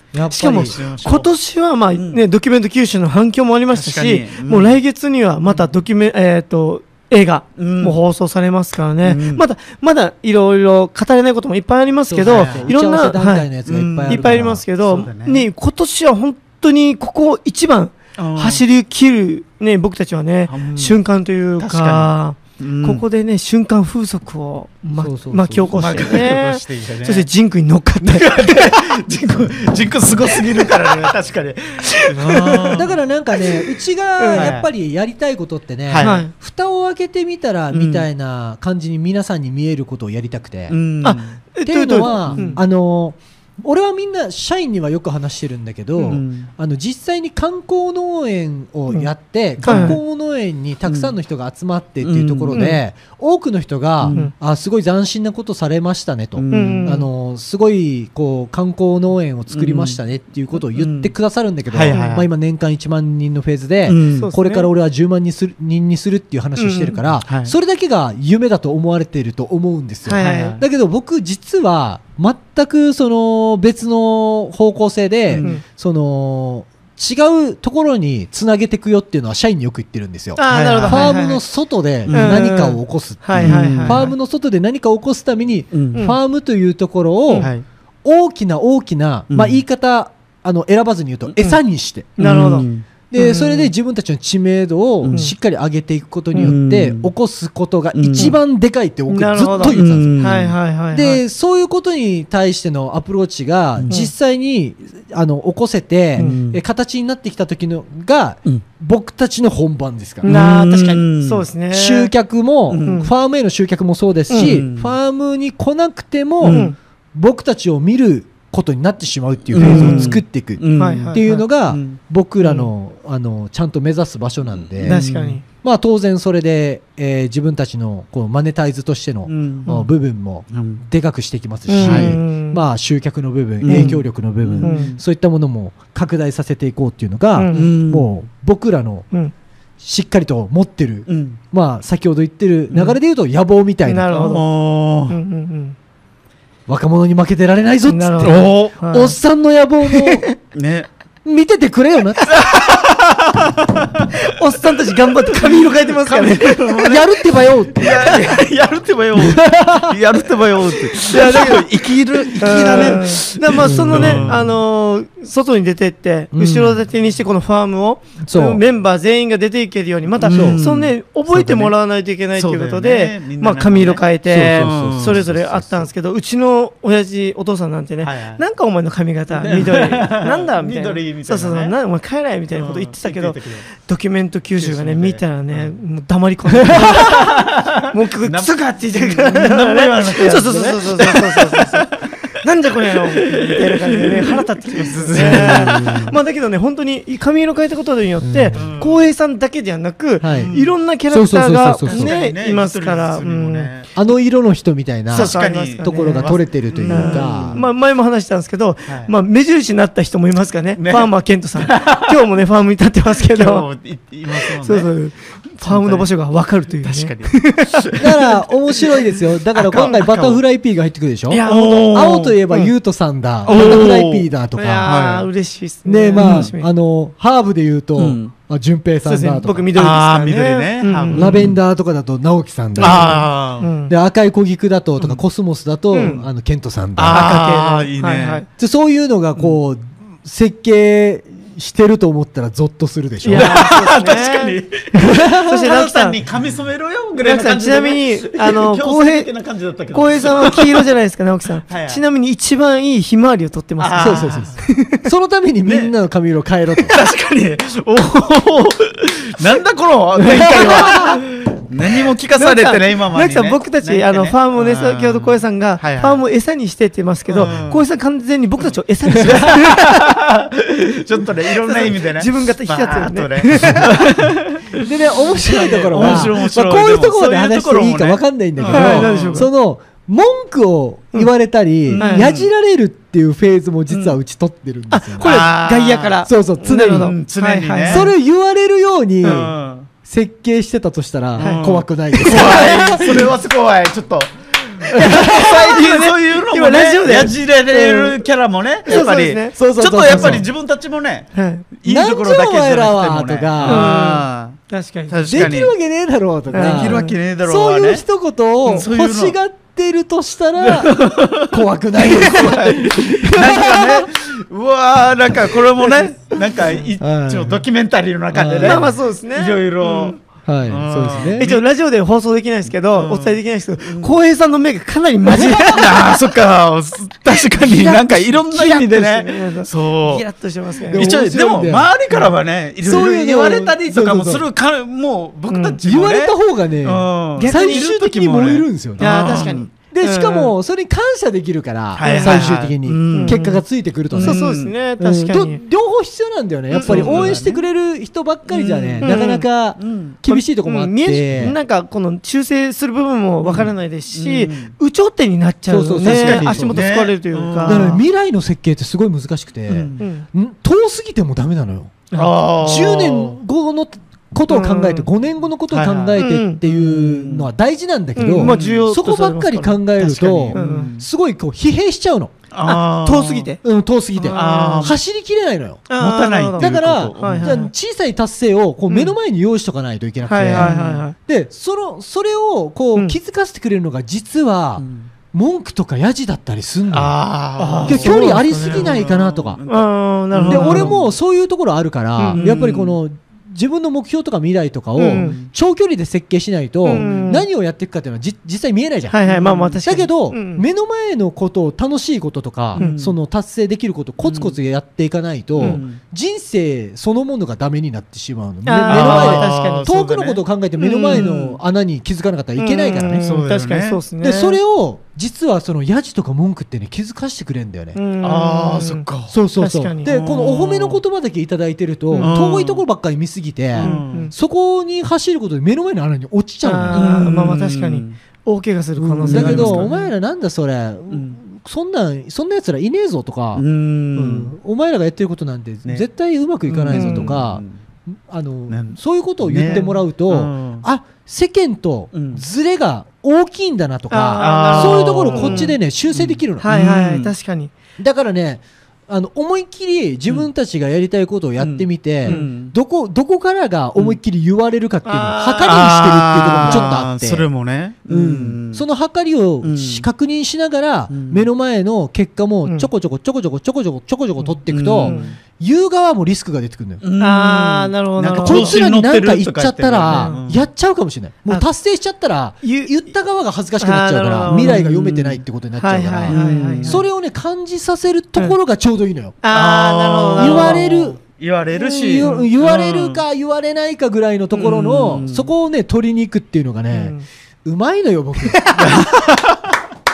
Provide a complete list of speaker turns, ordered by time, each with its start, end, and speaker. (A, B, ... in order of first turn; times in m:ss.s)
0:00.1-0:00.8 A
0:00.3-0:13.5 B
0:00.4-0:01.3 C
0:01.9-0:02.2 C
0:03.7-0:04.8 C
0:05.5-0:05.7 C
0:07.6-0:08.0 C
0:09.0-0:09.4 C
0:12.1-0:14.6 A
0:12.2-0:12.7 C
0:13.7-0:15.4 C
0:14.1-0:28.8 B
0:18.2-0:18.6 C
0:20.5-0:21.0 C
0:21.6-0:23.0 C
0:25.0-0:26.1 A
0:25.8-0:27.2 C
0:28.0-0:32.9 C
0:30.6-0:30.9 B
0:31.8-0:32.8 B
0:32.4-0:40.8 A
0:34.2-0:34.5 B
0:34.3-0:34.7 C
0:35.9-0:36.2 C
0:36.0-0:36.3 B
0:37.7-0:38.1 C
0:40.7-0:41.4 C
0:41.0-0:42.6 B
0:41.6-1:27.5 A
0:42.0-0:42.6 C
0:46.0-0:46.5 C
0:49.6-0:50.0 B
0:49.6-0:50.0 C
0:50.8-0:51.1 C
0:52.0-0:52.7 C
0:52.5-0:52.8 B
0:54.0-0:54.3 C
0:56.4-0:56.9 C
0:56.5-0:57.1 B
0:59.5-1:00.0 C
1:00.7-1:01.1 C
1:01.7-1:02.2 C
1:01.9-1:02.2 B
1:03.9-1:04.3 C
1:04.1-1:04.7 B
1:06.6-1:07.0 B
1:07.2-1:07.5 C
1:10.0-1:10.6 B
1:10.2-1:10.6 C
1:20.4-1:21.4 B
1:20.4-1:21.2 C
1:22.1-1:22.4 C
1:22.1-1:24.1 B
1:23.3-1:24.1 C
1:25.7-1:26.0 C
1:28.0-1:32.2 A
1:29.3-1:29.6 C
1:32.2-1:33.7 B
1:32.2-1:32.8 C
1:33.1-1:40.4 A
1:36.4-1:37.1 C
1:37.9-1:38.4 C
1:39.1-1:41.2 B
1:39.4-1:40.5 C
1:40.9-1:50.3 A
1:46.2-1:46.6 C
1:46.2-1:46.4 B
1:50.2-1:52.1 B
1:50.2-1:51.4 C
1:51.7-2:05.0 A
1:52.7-1:53.0 C
1:52.8-1:53.1 B
1:54.3-1:54.6 B
1:54.4-1:54.9 C
1:56.4-1:56.7 C
1:56.4-1:56.8 B
1:59.5-2:02.0 C
1:59.6-2:00.2 B
2:00.7-2:01.4 B
2:02.4-2:02.7 B
2:04.7-2:05.4 C
2:04.8-2:05.4 B
2:05.6-2:19.1 A
2:09.3-2:09.7 C
2:10.5-2:10.8 C
2:11.7-2:12.6 B
2:11.8-2:12.2 C
2:13.6-2:15.0 C
2:13.7-2:14.0 B
2:14.6-2:15.0 B
2:17.4-2:17.7 B
2:17.5-2:18.1 C
2:19.8-2:24.2 A
2:21.1-2:21.4 C
2:23.8-2:24.5 B
2:24.1-2:25.2 C
2:25.1-2:25.8 B
2:26.7-2:30.2 A
2:27.9-2:29.1 B
2:28.2-2:28.8 C
2:29.9-2:30.3 B
2:30.5-2:30.9 C
2:31.2-2:32.4 A
2:32.3-2:34.1 C
2:34.1-2:37.0 B
2:35.3-2:44.5 C
2:36.8-2:38.4 A
2:39.2-2:40.0 A
2:41.1-2:41.7 B
2:42.3-3:23.7 B
2:43.6-2:44.5 A
2:46.3-2:46.8 A
2:48.2-2:48.6 A
2:50.2-2:50.7 A
2:50.2-2:50.9 C
2:51.3-2:51.7 A
2:52.4-2:55.2 C
2:54.3-2:55.9 A
2:58.0-2:58.4 C
2:59.3-3:01.7 C
3:02.5-3:03.6 C
3:04.6-3:05.8 C
3:06.6-3:12.3 C
3:10.2-3:10.8 A
3:12.9-3:13.8 C
3:14.6-3:16.1 C
3:15.2-3:16.2 A
3:18.2-3:18.6 A
3:18.5-3:19.1 C
3:20.2-3:20.5 A
3:20.3-3:20.7 C
3:21.1-3:22.1 A
3:21.8-3:23.9 C
3:23.9-3:27.6 A
3:25.1-3:33.7 B
3:25.1-3:27.7 C
3:28.9-3:29.1 C
3:30.8-3:32.1 C
3:33.1-3:34.9 C
3:34.3-3:38.0 B
3:35.6-3:36.1 C
3:36.8-3:38.3 C
3:38.0-3:44.8 A
3:39.5-3:40.4 C
3:41.3-3:42.2 B
3:41.4-3:42.7 C
3:43.5-3:43.9 B
3:43.5-3:44.3 C
3:44.6-3:46.7 B
3:44.8-3:45.3 C
3:45.8-3:49.7 A
3:46.2-3:46.5 C
3:48.0-3:48.3 C
3:49.0-3:51.4 B
3:49.7-3:51.6 C
3:51.1-3:53.3 A
3:52.8-3:53.9 B
3:52.8-3:53.7 C
3:53.9-3:57.3 A
3:55.9-3:56.2 B
3:57.0-3:58.4 C
3:57.1-3:58.4 B
3:58.6-4:03.7 A
4:03.2-4:06.2 B
4:03.3-4:10.9 C
4:05.1-4:05.6 A
4:07.2-4:09.3 B
4:09.9-4:15.1 B
4:11.7-4:12.0 C
4:13.8-4:14.6 C
4:14.0-4:17.0 A
4:15.6-4:15.9 C
4:16.9-4:26.2 C
4:20.2-4:21.2 B
4:22.3-4:30.2 B
4:27.3-4:27.8 C
4:29.2-4:39.4 C
4:31.6-4:34.3 B
4:34.7-4:45.4 A
4:35.9-4:36.3 B
4:38.7-4:39.5 B
4:41.9-4:42.5 C
4:42.0-4:42.3 B
4:43.9-4:44.2 C
4:44.9-4:48.1 B
4:45.2-4:48.1 C
4:46.2-4:47.1 A
4:47.8-4:53.3 A
4:49.2-4:49.5 B
4:49.2-4:49.9 C
4:51.4-5:05.7 C
4:51.4-4:53.1 B
4:54.9-4:58.2 B
4:54.9-4:55.6 A
4:58.8-5:00.4 B
4:59.5-5:00.5 A
5:01.3-5:01.6 B
5:01.8-5:03.9 A
5:03.6-5:05.4 B
5:05.3-5:14.1 A
5:06.5-5:07.2 B
5:06.5-5:08.0 C
5:08.7-5:09.4 C
5:10.6-5:11.6 C
5:12.2-5:21.6 C
5:12.2-5:12.6 B
5:13.3-5:13.9 B
5:15.8-5:16.4 B
5:17.0-5:17.6 A
5:18.3-5:18.9 A
5:18.6-5:20.2 B
5:20.4-5:21.5 A
5:21.4-5:26.1 B
5:22.8-5:24.1 C
5:25.3-5:30.2 C
5:27.3-5:31.1 B
5:30.8-5:39.7 C
5:30.9-5:31.9 A
5:32.8-5:34.4 A
5:35.5-5:35.8 B
5:35.8-5:44.5 A
5:37.4-5:37.9 B
5:39.0-5:40.5 B
5:42.0-5:44.7 C
5:42.0-5:42.6 B
5:43.1-5:43.4 B
5:44.2-5:45.6 B
5:45.0-5:51.6 A
5:46.7-5:47.6 C
5:46.7-5:47.3 B
5:48.5-5:49.2 C
5:49.0-5:49.4 B
5:49.8-5:50.2 C
5:50.3-5:58.0 B
5:53.4-5:54.7 C
5:55.7-5:56.8 A
5:56.0-5:58.0 C
5:57.6-6:12.3 A
5:59.7-6:00.0 C
6:00.0-6:00.2 B
6:02.1-6:03.4 C
6:04.5-6:05.1 B
6:05.7-6:07.5 C
6:06.2-6:06.6 B
6:08.2-6:10.9 B
6:08.4-6:08.9 C
6:10.1-6:11.1 C
6:12.5-6:13.5 C
6:12.6-6:13.6 B
6:13.6-6:15.9 A
6:14.2-6:14.9 B
6:14.3-6:15.0 C
6:15.9-6:17.7 B
6:16.0-6:17.6 C
6:16.6-6:27.2 A
6:18.9-6:19.2 B
6:20.3-6:21.1 B
6:20.5-6:21.0 C
6:24.8-6:25.1 C
6:26.9-6:31.1 C
6:27.6-6:28.9 B
6:27.8-6:29.6 A
6:29.7-6:30.9 B
6:30.5-6:39.2 A
6:32.2-6:32.4 B
6:32.3-6:33.0 C
6:35.0-6:35.4 B
6:35.1-6:35.5 C
6:36.8-6:37.4 B
6:36.9-6:37.2 C
6:39.1-6:40.6 B
6:39.2-6:39.8 C
6:39.8-6:53.2 A
6:42.8-6:43.2 C
6:44.2-6:44.5 C
6:45.6-6:46.0 C
6:48.6-6:49.9 B
6:48.8-6:50.4 C
6:50.8-6:51.4 B
6:51.1-6:51.5 C
6:52.6-6:54.6 B
6:53.1-6:54.0 C
6:54.2-6:58.0 A
6:57.9-7:00.1 B
6:58.2-6:59.3 C
6:59.3-7:07.1 A
7:00.0-7:01.0 C
7:02.1-7:02.4 B
7:02.2-7:02.8 C
7:03.7-7:04.3 C
7:03.8-7:04.3 B
7:06.6-7:09.9 B
7:06.9-7:08.2 C
7:09.0-7:26.7 A
7:09.2-7:10.1 C
7:11.1-7:11.4 C
7:13.6-7:14.5 C
7:16.7-7:17.8 C
7:16.9-7:17.4 B
7:18.7-7:20.8 C
7:19.7-7:20.0 B
7:22.1-7:22.4 C
7:24.1-7:25.8 B
7:24.4-7:27.3 C
7:26.6-7:27.7 B
7:28.0-7:37.4 A
7:31.6-7:32.7 C
7:32.3-7:32.5 B
7:35.0-7:35.8 B
7:35.6-7:38.8 C
7:36.6-7:36.9 B
7:38.1-7:47.0 A
7:39.6-7:40.1 C
7:41.1-7:41.5 C
7:44.7-7:45.3 C
7:45.0-7:45.4 B
7:47.0-7:50.6 C
7:47.2-7:48.8 B
7:48.4-7:59.4 A
7:50.1-7:50.4 B
7:52.6-7:53.1 B
7:53.8-7:54.9 B
7:54.5-7:55.4 C
7:55.8-7:57.0 B
7:56.3-7:57.0 C
7:59.4-8:00.8 B
7:59.5-8:03.2 C
8:00.4-8:01.2 A
8:01.7-8:09.1 A
8:02.2-8:02.5 B
8:04.5-8:05.5 C
8:06.9-8:07.2 B
8:08.5-8:09.1 B
8:08.8-8:09.7 C